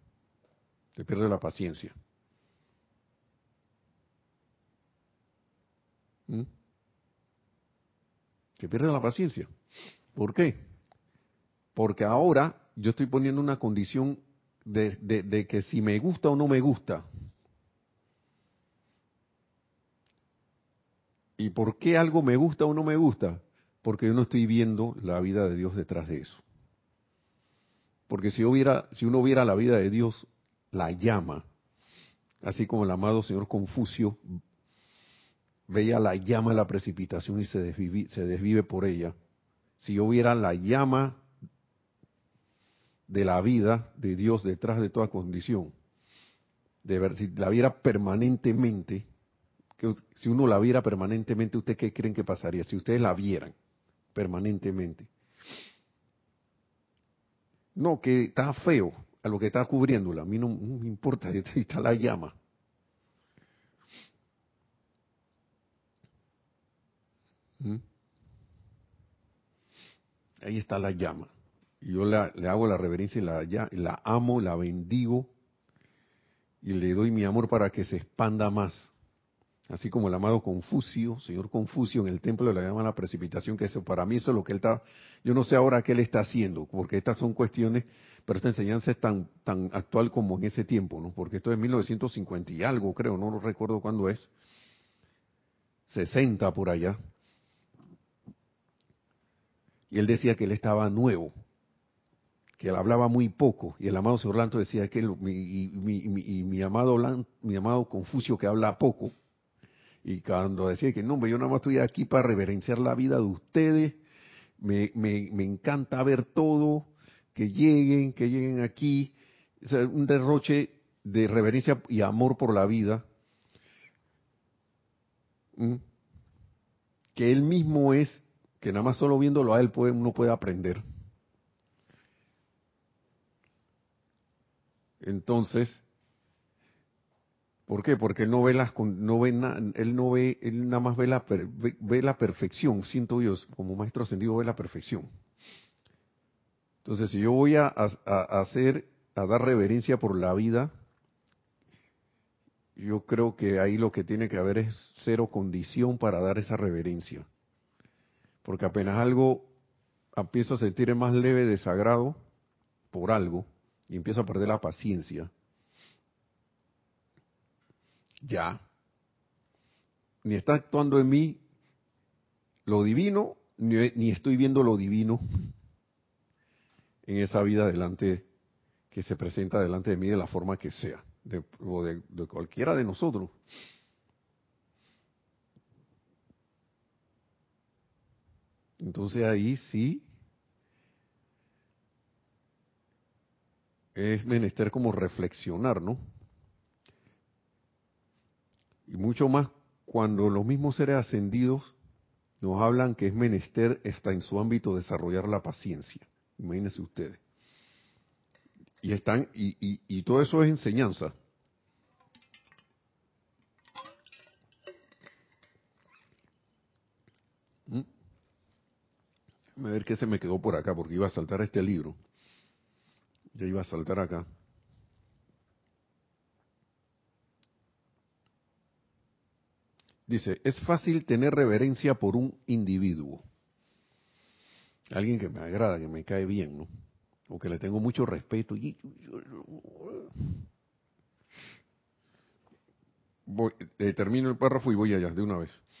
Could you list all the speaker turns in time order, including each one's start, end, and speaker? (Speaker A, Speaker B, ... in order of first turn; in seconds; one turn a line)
Speaker A: 0.9-1.9
Speaker A: 8.6-9.5
Speaker A: 10.1-10.6
Speaker A: 11.7-17.1
Speaker A: 21.4-26.4
Speaker A: 28.1-31.4
Speaker A: 32.4-34.4
Speaker A: 35.7-39.1
Speaker A: 39.8-41.2
Speaker A: 43.1-45.7
Speaker A: 46.8-49.0
Speaker A: 49.8-53.5
Speaker A: 54.1-55.1
Speaker A: 57.7-62.3
Speaker A: 70.4-75.3
Speaker A: 76.6-78.9
Speaker A: 79.7-94.3
Speaker A: 95.9-97.0
Speaker A: 99.9-101.3
Speaker A: 102.6-109.1
Speaker A: 110.0-114.0
Speaker A: 114.6-123.0
Speaker A: 125.5-125.8
Speaker A: 127.1-130.8
Speaker A: 135.0-135.8
Speaker A: 137.7-145.1
Speaker A: 146.8-150.7
Speaker A: 152.8-157.3
Speaker A: 158.4-159.5
Speaker A: 160.2-162.2
Speaker A: 162.9-165.3
Speaker A: 168.2-168.6
Speaker A: 170.2-171.4
Speaker A: 172.7-175.2
Speaker A: 177.1-178.3
Speaker A: 178.9-183.3
Speaker A: 188.8-190.1
Speaker A: 193.9-196.0
Speaker A: 198.9-201.7
Speaker A: 202.4-207.2
Speaker A: 208.8-211.1
Speaker A: 219.6-221.9
Speaker A: 223.3-224.2
Speaker A: 230.1-233.2
Speaker A: 234.9-236.7
Speaker A: 237.3-240.1
Speaker A: 243.2-245.6